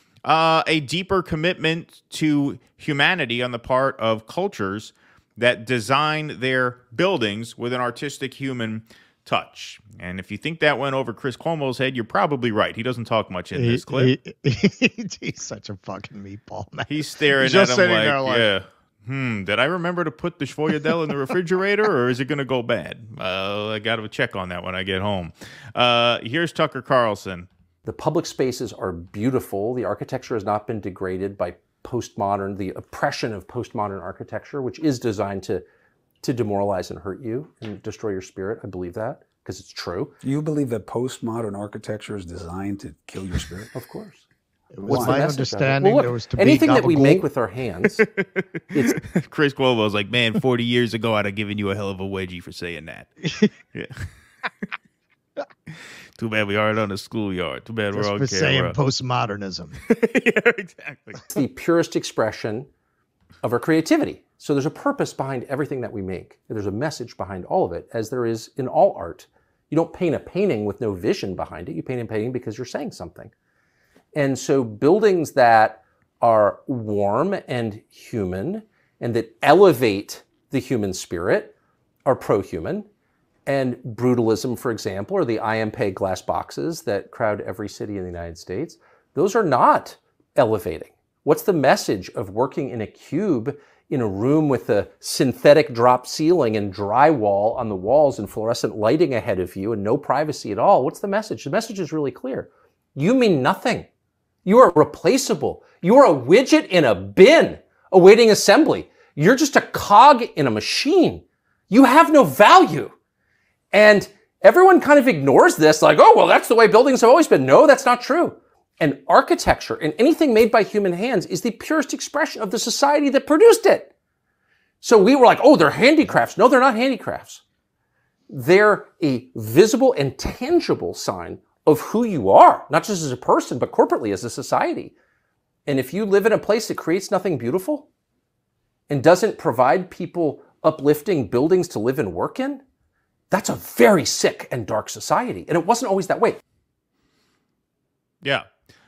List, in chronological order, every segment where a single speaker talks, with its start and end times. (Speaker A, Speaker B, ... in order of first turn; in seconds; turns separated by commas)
Speaker A: 0.2-14.1, Speaker B: 13.5-18.5, Speaker A: 16.9-27.5, Speaker C: 27.9-35.6, Speaker C: 36.2-40.1, Speaker D: 40.2-43.7, Speaker C: 43.7-44.2, Speaker B: 44.7-47.2, Speaker C: 44.9-48.0, Speaker D: 44.9-45.3, Speaker A: 48.0-53.2, Speaker C: 48.7-49.0, Speaker A: 53.7-54.0, Speaker A: 56.1-58.8, Speaker B: 57.9-59.8, Speaker A: 59.9-61.2, Speaker C: 61.3-62.7, Speaker C: 63.4-73.3, Speaker C: 74.1-81.5, Speaker C: 82.0-82.9, Speaker C: 83.5-103.9, Speaker C: 104.4-112.9, Speaker C: 113.7-123.9, Speaker C: 124.8-127.4, Speaker C: 128.3-134.9, Speaker C: 135.7-137.9, Speaker C: 138.9-142.6, Speaker C: 143.3-146.4